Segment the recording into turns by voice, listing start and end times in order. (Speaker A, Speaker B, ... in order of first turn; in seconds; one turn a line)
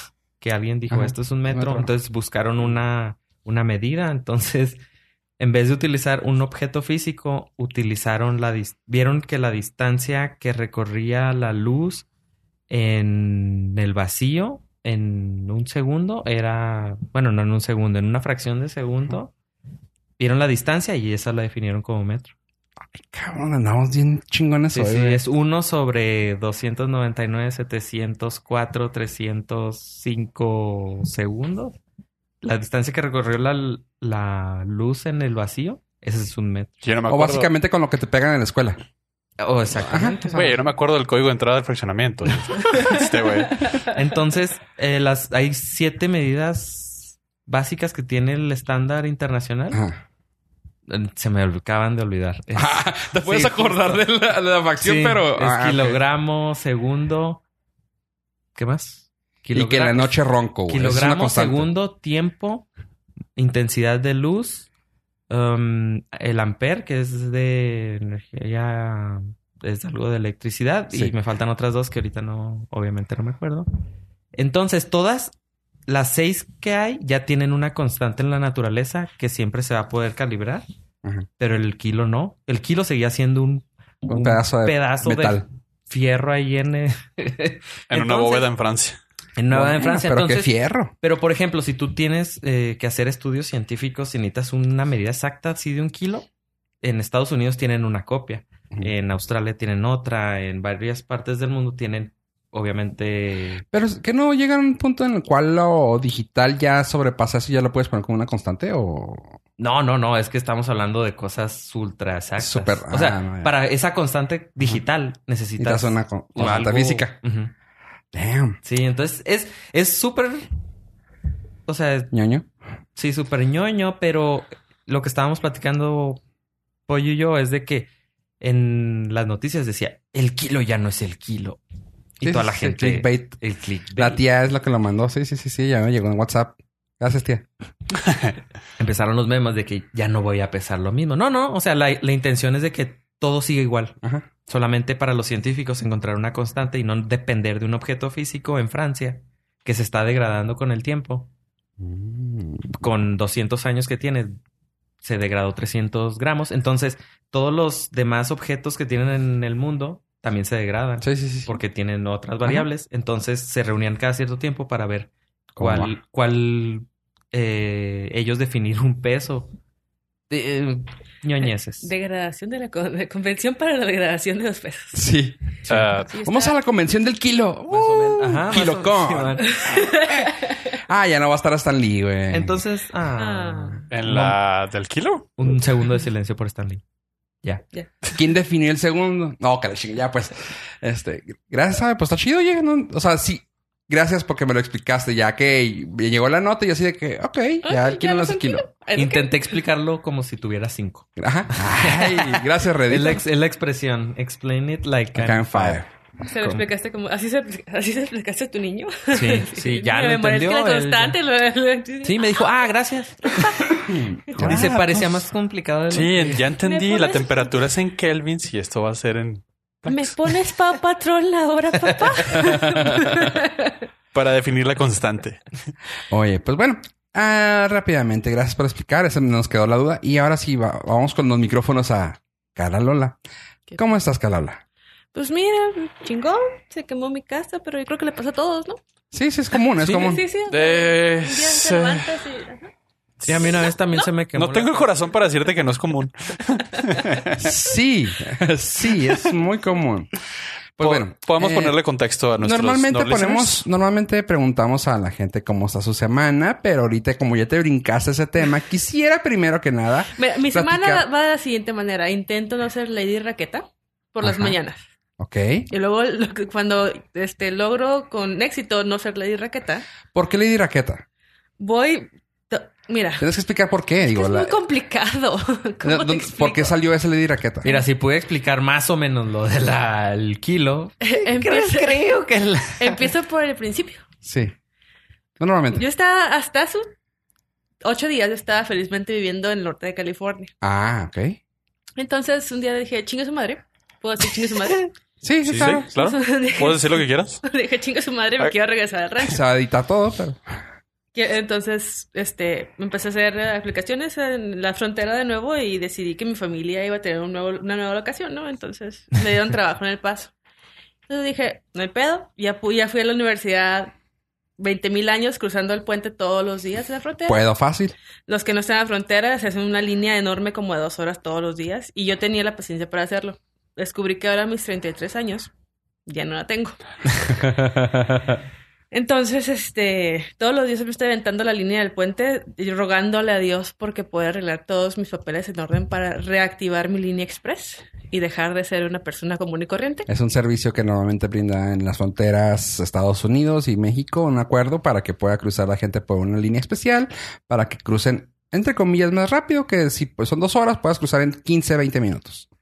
Speaker A: 0.4-4.8
Speaker B: 0.9-1.9
Speaker A: 5.4-12.1
Speaker A: 12.7-19.3
Speaker A: 20.2-22.3
Speaker B: 22.9-25.2
Speaker A: 24.7-31.8
Speaker A: 32.4-36.9
Speaker C: 36.8-37.5
Speaker B: 37.1-38.8
Speaker A: 39.4-40.5
Speaker B: 39.8-40.6
Speaker C: 40.3-43.7
Speaker A: 43.9-49.8
Speaker B: 49.7-50.0
Speaker A: 50.9-54.1
Speaker B: 52.5-56.0
Speaker A: 54.8-57.4
Speaker A: 58.5-62.7
Speaker B: 59.5-61.7
Speaker A: 63.4-64.7
Speaker A: 65.3-73.7
Speaker A: 74.3-75.3
Speaker A: 75.9-80.7
Speaker A: 81.4-88.5
Speaker B: 84.0-85.5
Speaker C: 87.9-89.0
Speaker A: 89.3-96.3
Speaker B: 89.5-90.9
Speaker A: 96.8-103.6
Speaker B: 103.7-109.3
Speaker A: 109.6-117.5
Speaker B: 112.4-113.5
Speaker B: 115.6-117.2
Speaker B: 118.1-118.6
Speaker A: 118.6-120.5
Speaker A: 121.7-122.1
Speaker B: 122.1-122.5
Speaker A: 122.9-126.2
Speaker A: 126.9-127.9
Speaker A: 128.4-131.6
Speaker A: 132.2-134.2
Speaker B: 132.2-133.4
Speaker B: 133.9-137.5
Speaker A: 138.8-143.9
Speaker A: 144.5-151.3
Speaker B: 151.8-152.7
Speaker A: 152.7-154.4
Speaker A: 155.0-169.5
Speaker B: 161.0-161.5
Speaker B: 165.6-165.9
Speaker A: 170.3-171.9
Speaker D: 171.8-175.0
Speaker B: 174.9-179.9
Speaker C: 175.7-176.1
Speaker D: 176.1-176.6
Speaker A: 177.7-179.6
Speaker D: 179.5-180.6
Speaker B: 180.8-182.6
Speaker A: 182.3-184.4
Speaker D: 183.2-183.8
Speaker C: 183.9-185.3
Speaker A: 185.4-186.8
Speaker B: 188.1-198.6
Speaker D: 197.6-199.5
Speaker A: 198.9-205.8
Speaker B: 201.2-203.2
Speaker B: 205.1-205.9
Speaker D: 206.3-212.7
Speaker A: 209.1-211.2
Speaker A: 212.0-213.4
Speaker D: 213.3-214.7
Speaker B: 213.8-215.1
Speaker A: 214.4-216.5
Speaker C: 215.9-220.1
Speaker D: 216.6-217.5
Speaker D: 219.8-223.8
Speaker A: 221.8-222.7
Speaker B: 222.5-223.0
Speaker C: 224.1-225.5
Speaker B: 226.1-233.2
Speaker B: 233.8-234.6
Speaker D: 235.1-238.8
Speaker B: 239.1-240.2
Speaker A: 239.8-240.1
Speaker D: 239.8-242.7
Speaker C: 240.5-242.2
Speaker A: 243.2-244.9
Speaker C: 243.2-243.5
Speaker D: 243.4-244.1
Speaker C: 244.3-247.4
Speaker B: 247.4-250.1
Speaker B: 250.8-251.8
Speaker C: 250.8-253.6
Speaker B: 252.4-261.0
Speaker D: 260.1-264.8
Speaker B: 264.2-264.6
Speaker B: 265.2-265.7
Speaker D: 265.7-269.8
Speaker B: 270.1-271.0
Speaker D: 271.6-273.3
Speaker B: 273.2-274.6
Speaker D: 274.0-276.8
Speaker B: 275.8-277.7
Speaker A: 277.6-283.1
Speaker D: 281.0-282.0
Speaker D: 282.8-284.0
Speaker B: 284.2-284.5
Speaker B: 285.4-285.8
Speaker D: 285.7-286.9
Speaker D: 287.8-290.5
Speaker B: 290.6-291.4
Speaker D: 292.0-294.9
Speaker B: 295.2-295.9
Speaker C: 295.4-297.4
Speaker D: 295.6-299.4
Speaker B: 299.2-300.6
Speaker D: 301.1-310.3
Speaker D: 311.1-313.9
Speaker D: 314.6-317.4
Speaker B: 317.2-317.9
Speaker D: 318.3-325.5
Speaker D: 326.1-326.8
Speaker B: 327.3-328.4
Speaker D: 328.9-340.1
Speaker B: 340.1-352.5